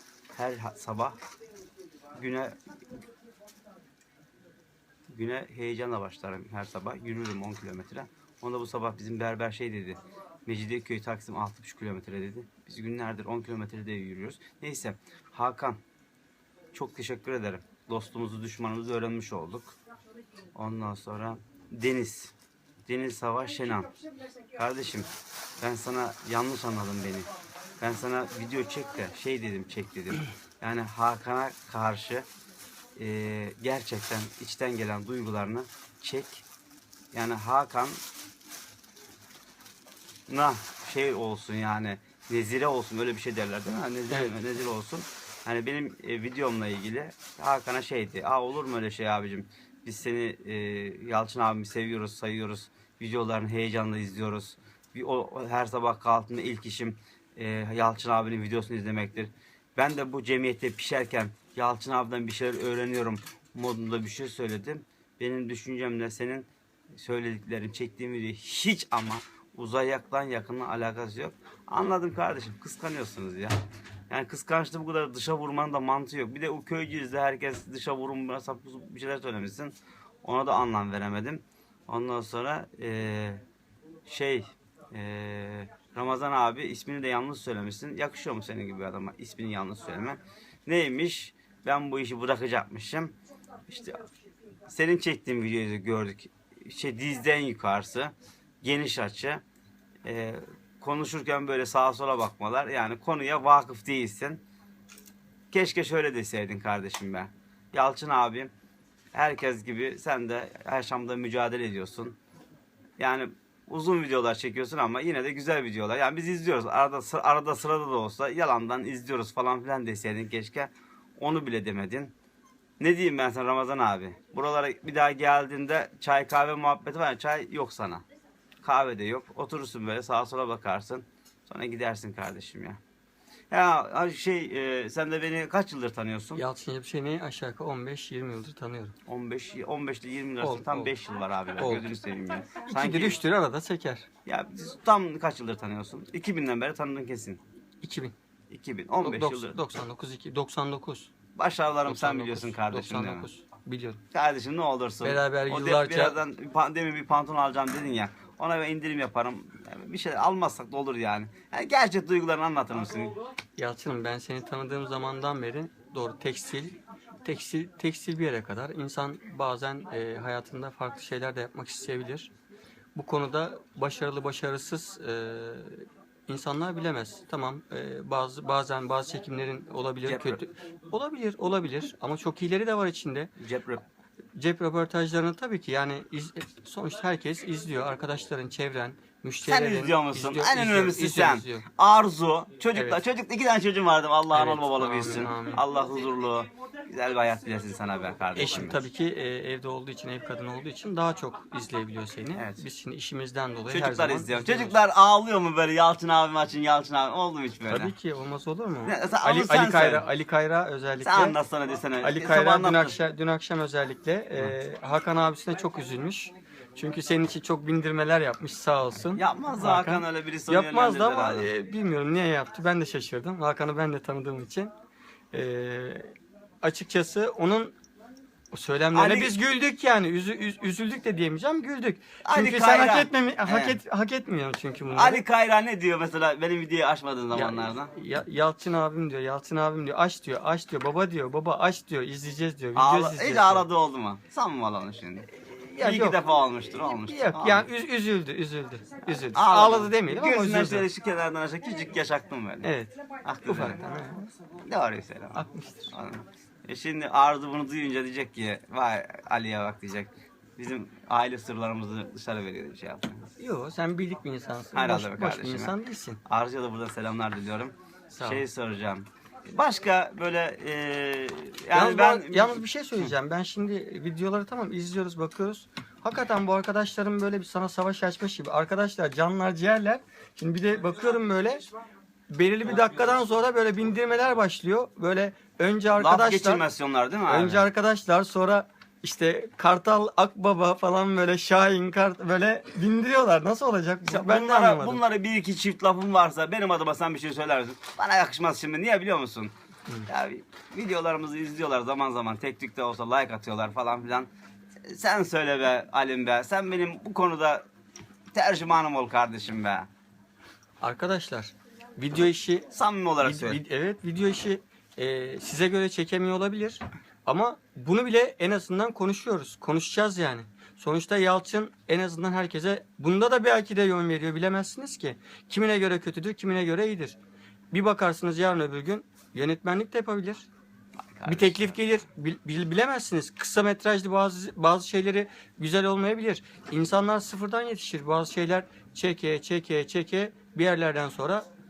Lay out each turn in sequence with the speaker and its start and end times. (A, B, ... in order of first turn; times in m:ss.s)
0:00.4-0:01.2 A
0:02.1-0:02.6 A
0:05.1-0:15.8 A
0:16.7-0:19.8 A
0:20.5-0:22.3 A
0:22.9-0:23.9 A
0:24.5-0:25.1 A
0:25.6-0:27.3 A
0:27.8-0:32.2 A
0:33.0-0:36.4 A
0:37.1-0:38.0 A
0:40.3-1:13.6 A
0:44.1-0:44.4 B
1:14.1-1:23.4 A
1:24.1-1:33.2 A
1:33.7-1:34.0 A
1:34.7-1:39.4 A
1:40.0-1:44.4 A
1:45.5-1:48.5 A
1:49.1-1:52.2 A
1:53.0-2:02.1 A
2:02.8-2:08.0 A
2:08.6-2:12.8 A
2:13.5-2:16.4 A
2:16.4-2:18.9 B
2:19.0-2:23.2 A
2:20.4-2:20.9 B
2:21.6-2:21.9 B
2:22.7-2:24.1 B
2:24.2-2:27.4 A
2:27.8-2:28.1 B
2:28.5-2:29.6 A
2:29.0-2:31.1 B
2:31.3-2:33.3 A
2:31.9-2:34.0 B
2:34.1-2:43.1 A
2:35.0-2:36.2 B
2:43.6-2:52.3 B
2:52.9-3:03.3 B
3:00.0-3:00.4 A
3:03.4-3:03.8 A
3:04.3-3:11.6 B
3:09.4-3:18.8 A
3:12.7-3:13.0 B
3:14.3-3:15.6 B
3:18.3-3:24.8 B
3:22.4-3:22.6 A
3:23.7-3:27.9 A
3:27.7-3:31.4 B
3:28.8-3:30.0 A
3:31.0-3:33.0 A
3:32.0-3:44.7 B
3:39.1-3:41.5 A
3:45.3-3:46.1 B
3:46.6-3:47.7 B
3:48.5-3:55.2 B
3:48.9-3:49.3 A
3:52.2-3:53.8 A
3:54.9-3:57.9 A
3:57.3-4:03.7 B
4:02.8-4:07.7 A
4:05.8-4:06.2 B
4:06.8-4:10.9 B
4:09.3-4:12.7 A
4:12.6-4:12.9 B
4:13.2-4:13.9 A
4:13.4-4:14.3 B
4:14.6-4:23.3 A
4:15.3-4:15.9 B
4:23.4-4:26.2 B
4:24.7-4:25.7 A
4:26.2-4:33.1 A
4:28.1-4:28.4 B
4:31.7-4:41.7 B
4:42.3-4:46.6 B
4:46.0-4:47.6 A
4:47.3-4:55.0 B
4:54.0-4:59.5 A
5:00.1-5:04.3 A
5:04.8-5:07.6 A
5:08.3-5:09.9 A
5:10.8-5:12.7 B
5:12.7-5:13.6 A
5:13.2-5:27.2 B
5:27.7-5:30.5 B
5:31.1-5:31.7 A
5:31.2-5:41.4 B